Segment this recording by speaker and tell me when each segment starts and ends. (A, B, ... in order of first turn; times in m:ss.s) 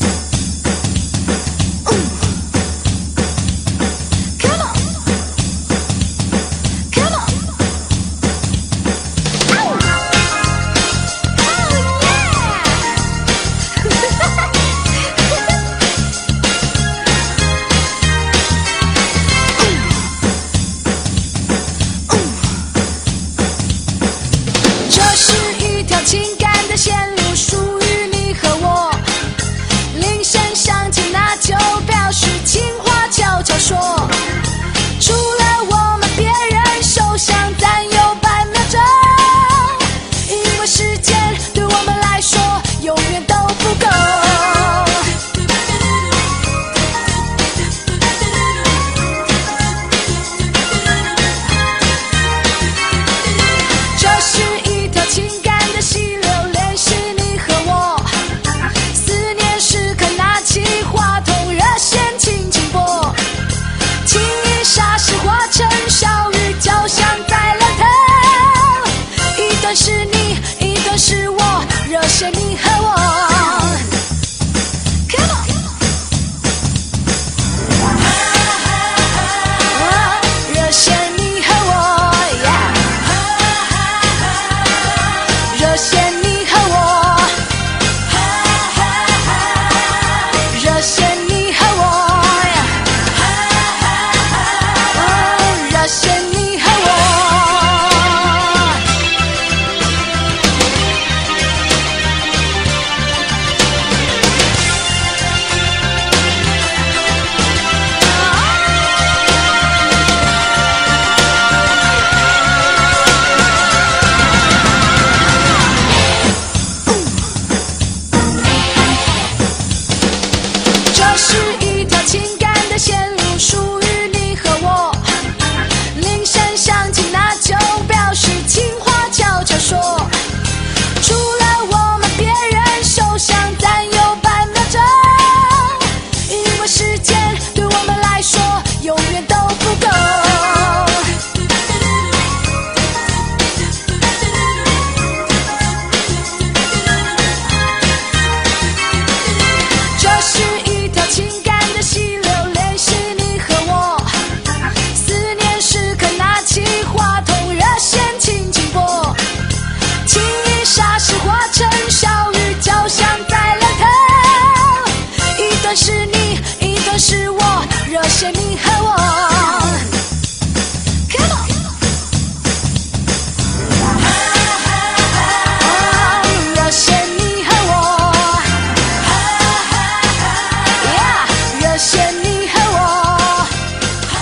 0:24.9-0:29.0 A
0:29.9-0:34.1 A
0:35.0-0:45.1 A
0:53.9-0:58.0 A
0:58.9-1:03.2 A
1:04.0-1:13.8 A
1:15.1-1:15.6 A
1:19.7-1:23.3 A
1:25.5-1:27.3 A
1:28.3-1:29.8 A
1:30.5-1:32.8 A
1:34.8-1:38.8 A
2:00.9-2:05.0 A
2:05.9-2:10.1 A
2:11.0-2:21.1 A
2:30.0-2:34.1 A
2:34.9-2:39.2 A
2:40.0-2:49.8 A
2:51.1-2:51.5 A
2:55.5-2:58.5 A
2:59.1-2:59.6 A
3:00.8-3:03.5 A